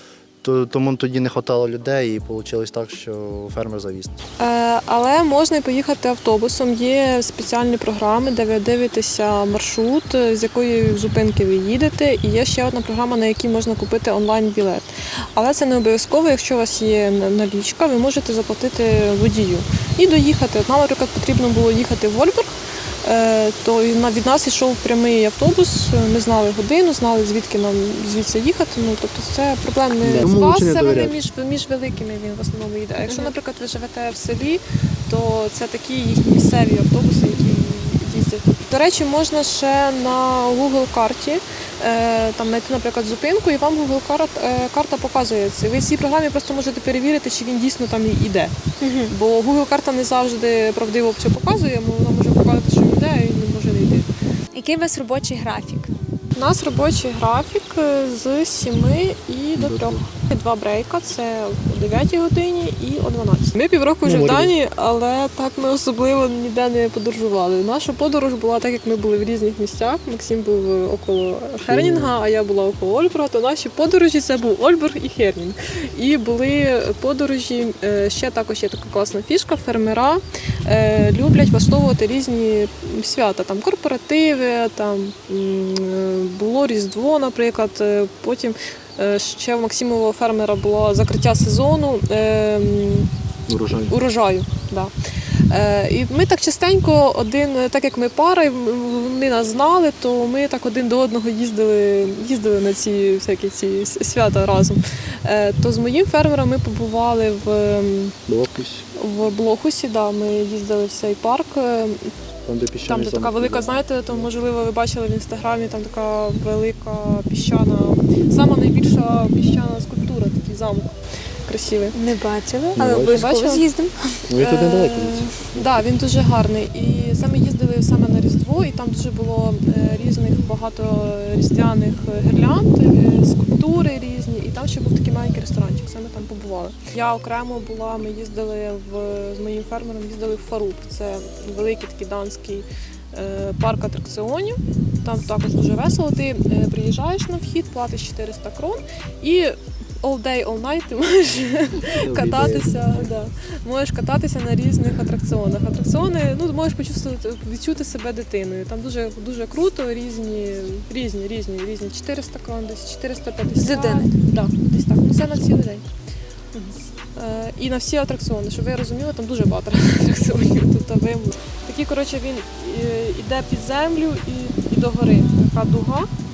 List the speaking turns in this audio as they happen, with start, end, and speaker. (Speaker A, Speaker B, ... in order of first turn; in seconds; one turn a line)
Speaker A: 0.4-4.1
Speaker B: 4.4-54.1
Speaker A: 30.0-31.1
Speaker C: 54.5-55.9
Speaker B: 56.3-93.1
Speaker A: 59.6-60.1
Speaker A: 64.0-64.5
Speaker A: 71.7-72.2
Speaker A: 93.5-94.0
Speaker B: 93.9-94.9
Speaker B: 95.5-108.2
Speaker A: 108.3-108.8
Speaker B: 109.0-112.1
Speaker A: 112.4-114.3
Speaker B: 112.8-120.9
Speaker B: 121.5-122.0
Speaker C: 121.9-123.9
Speaker A: 122.8-123.2
Speaker B: 122.8-123.7
Speaker A: 124.3-125.8
Speaker B: 124.4-165.8
Speaker A: 151.9-153.1
Speaker C: 163.6-164.1
Speaker B: 167.1-176.1